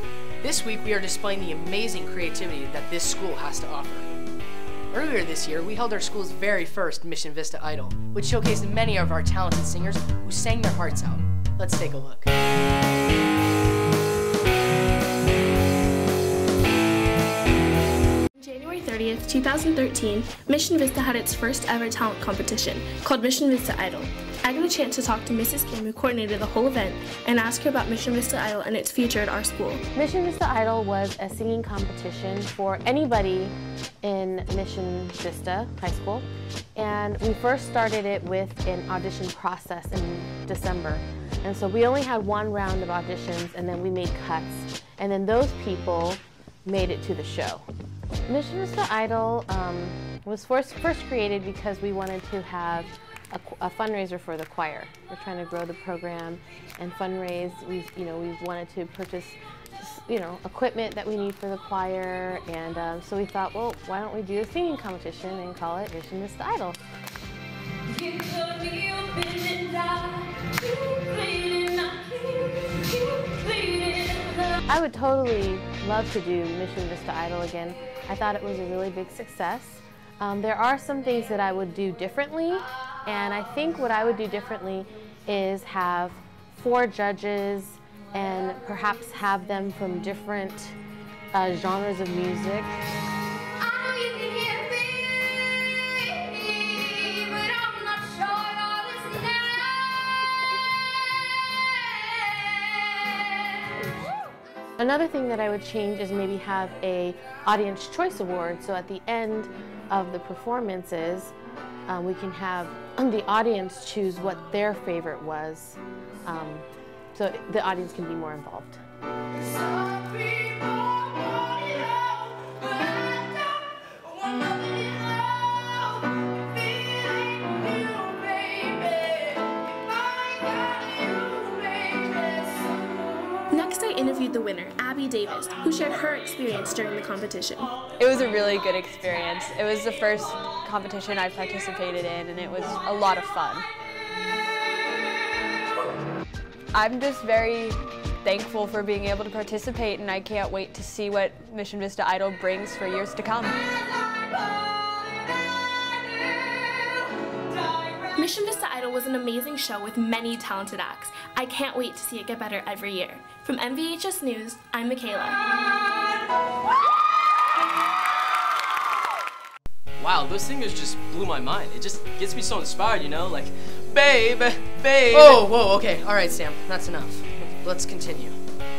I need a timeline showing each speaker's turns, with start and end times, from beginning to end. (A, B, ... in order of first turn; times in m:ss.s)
0:00.4-0:04.1 A
0:04.9-0:12.3 A
0:18.4-0:29.8 B
0:29.9-0:47.6 C
0:48.3-1:06.8 C
1:08.1-1:10.5 D
1:11.1-1:12.1 D
1:13.5-1:14.2 D
1:14.7-1:30.8 C
1:31.3-1:32.8 C
1:34.0-1:34.6 D
1:37.6-1:39.2 D
1:44.8-1:51.3 C
1:51.9-1:58.8 C
2:13.5-2:17.8 B
2:18.0-2:23.7 D
2:26.7-2:33.6 D
2:38.1-2:45.4 B
2:50.0-2:55.5 E
2:55.1-2:58.4 A